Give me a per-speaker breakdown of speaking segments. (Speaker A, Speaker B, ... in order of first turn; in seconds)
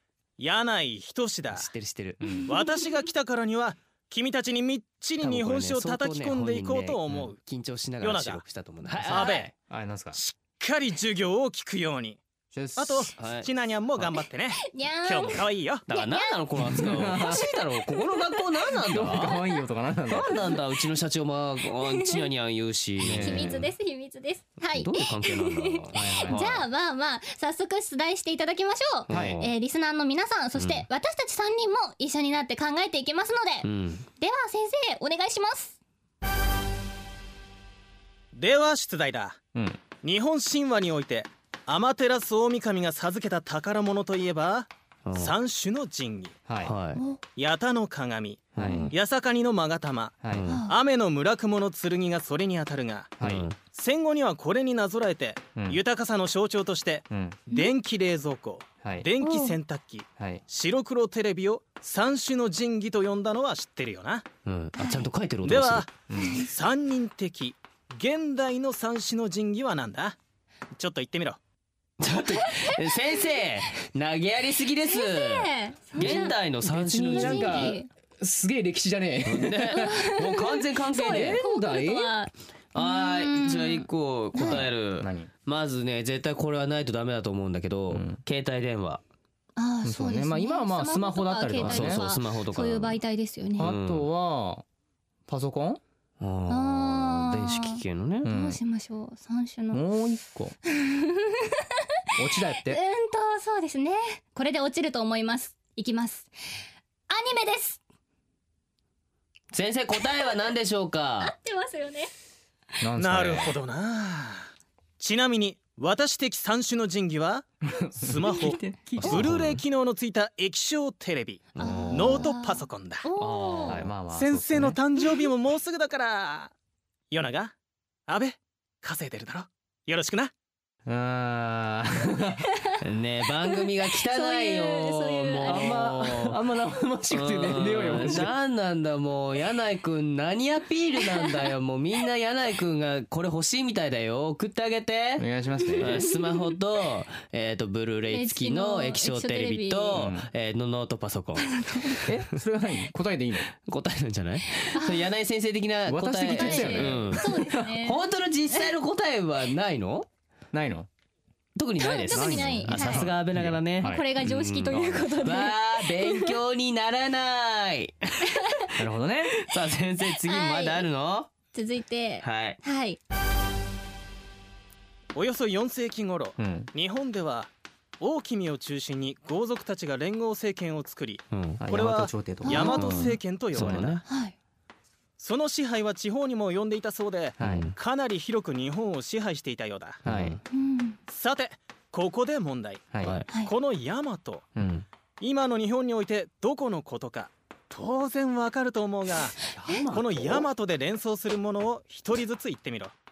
Speaker A: 0.4-1.7, 2.5-7.4, 8.0-8.4, 9.1-9.5, 10.1-12.2, 12.8-15.8, 38.3-39.4, 40.0-46.4, 47.4-53.1, 53.7-64.2, 65.4-70.2, 70.8-71.4, 113.0-123.0, 124.1-126.5, 127.1-127.5, 128.1-130.3, 175.1-184.0, 185.2-190.0, 191.1-194.4, 195.2-202.9
Speaker B: 1.5-2.2, 5.2-9.4, 13.2-14.1, 15.9-19.4, 20.1-23.7, 24.7-26.7, 29.1-29.5, 30.5-30.8, 33.6-34.1, 45.0-45.3, 46.6-47.0, 48.6-48.9, 50.3-50.7, 53.2-53.6, 64.4-65.9, 72.0-77.8, 79.2-81.4, 82.7-89.0, 91.6-93.0, 93.6-94.1, 96.2-98.3, 109.5-111.3, 119.0-119.6, 121.5-122.3, 132.8-136.4, 137.1-152.0, 153.6-160.1, 161.6-168.7, 169.4-171.3, 172.2-172.6, 181.3-181.6, 183.5-184.0, 187.4-187.7, 190.0-190.4, 193.0-193.3
Speaker C: 2.2-2.5, 14.6-16.4, 17.1-17.5, 18.0-19.6, 20.2-20.5, 21.8-22.2, 23.1-33.7, 34.2-35.8, 46.9-47.2, 48.6-48.9, 50.5-50.8, 59.2-59.6, 64.7-65.1, 66.2-66.5, 72.4-73.4, 74.8-76.4, 77.0-77.9, 79.7-84.7, 89.5-93.7, 96.5-99.8, 100.7-101.6, 102.6-106.3, 107.1-107.8, 111.2-112.1, 118.2-119.0, 121.6-123.8, 133.6-135.9, 141.1-141.5, 148.1-150.0, 151.4-152.0, 154.7-155.1, 156.3-158.6, 161.8-163.1, 163.8-166.3, 168.3-168.7, 170.2-170.9, 171.5-173.0, 182.4-183.2, 184.1-184.3, 190.5-191.0
Speaker D: 2.2-2.5, 9.1-10.2, 12.5-13.1, 16.6-17.5, 18.9-20.4, 23.0-23.6, 25.9-26.5, 29.1-29.4, 39.5-39.8, 46.5-46.7, 48.5-48.9, 53.2-53.5, 55.5-55.8, 57.1-57.4, 58.8-59.1, 66.1-66.4, 76.0-79.9, 81.0-82.1, 84.4-85.3, 87.9-88.2, 89.8-92.0, 93.6-94.6, 95.3-95.8, 98.2-98.6, 99.7-100.5, 102.2-102.8, 112.8-113.6, 117.8-119.5, 123.2-124.8, 130.8-132.4, 135.4-138.3, 145.2-146.0, 149.9-150.3, 152.0-153.5, 155.8-157.7, 160.5-160.9, 162.1-164.1, 164.7-165.1, 168.8-169.3, 176.4-176.7, 181.6-184.0, 187.4-187.7, 190.0-190.4, 192.9-193.2, 194.6-194.8, 199.5-200.4